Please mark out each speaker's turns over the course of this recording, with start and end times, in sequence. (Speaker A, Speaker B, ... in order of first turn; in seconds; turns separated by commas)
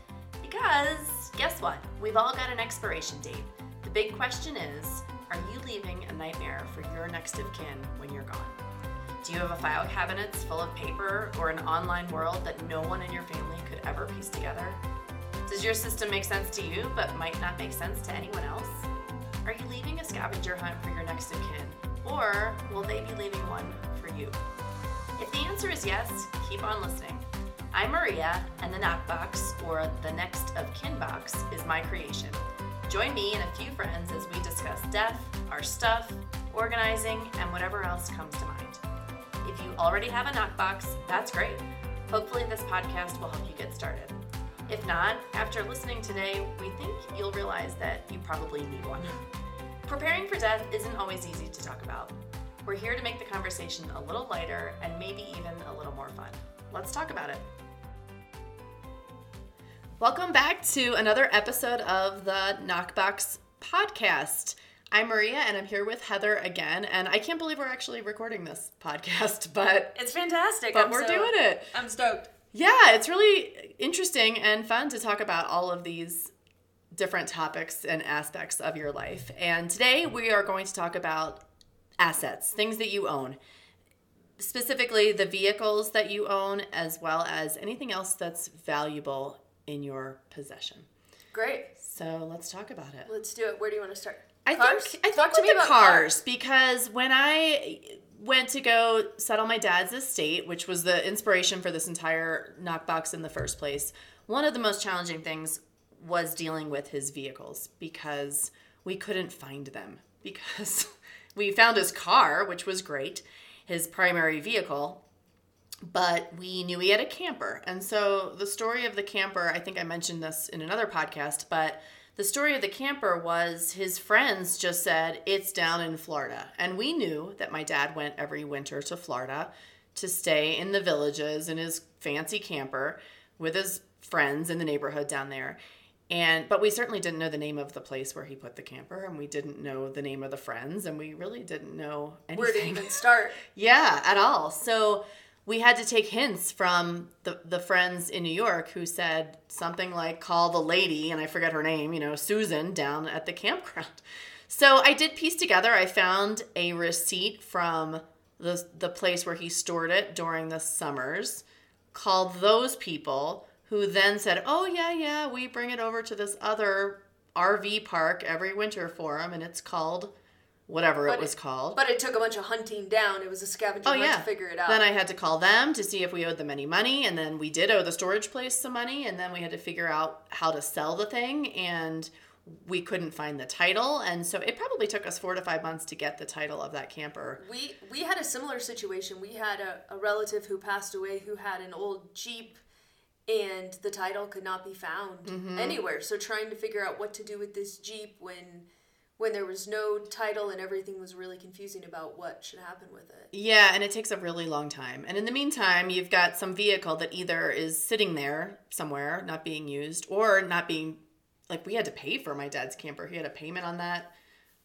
Speaker A: 0.4-8.5, Speaker A: 9.2-14.8, Speaker A: 15.5-18.9, Speaker A: 19.4-24.4, Speaker A: 25.2-38.8, Speaker A: 39.4-44.1, Speaker A: 44.7-49.1, Speaker A: 49.8-52.1, Speaker A: 52.6-57.4, Speaker A: 60.0-69.9, Speaker B: 69.9-72.3, Speaker A: 70.7-71.7, Speaker A: 72.5-76.3, Speaker A: 76.9-81.4, Speaker A: 82.0-83.4, Speaker A: 84.4-90.9, Speaker B: 91.3-91.7, Speaker A: 91.8-93.1, Speaker B: 93.0-96.1, Speaker A: 94.4-115.0, Speaker A: 115.8-135.6, Speaker A: 136.1-170.1, Speaker B: 142.3-143.4, Speaker A: 170.7-171.8, Speaker B: 171.1-174.8, Speaker A: 173.8-187.4, Speaker B: 187.4-192.6, Speaker B: 193.3-198.7, Speaker A: 195.2-195.8, Speaker B: 199.2-203.3, Speaker A: 203.3-214.1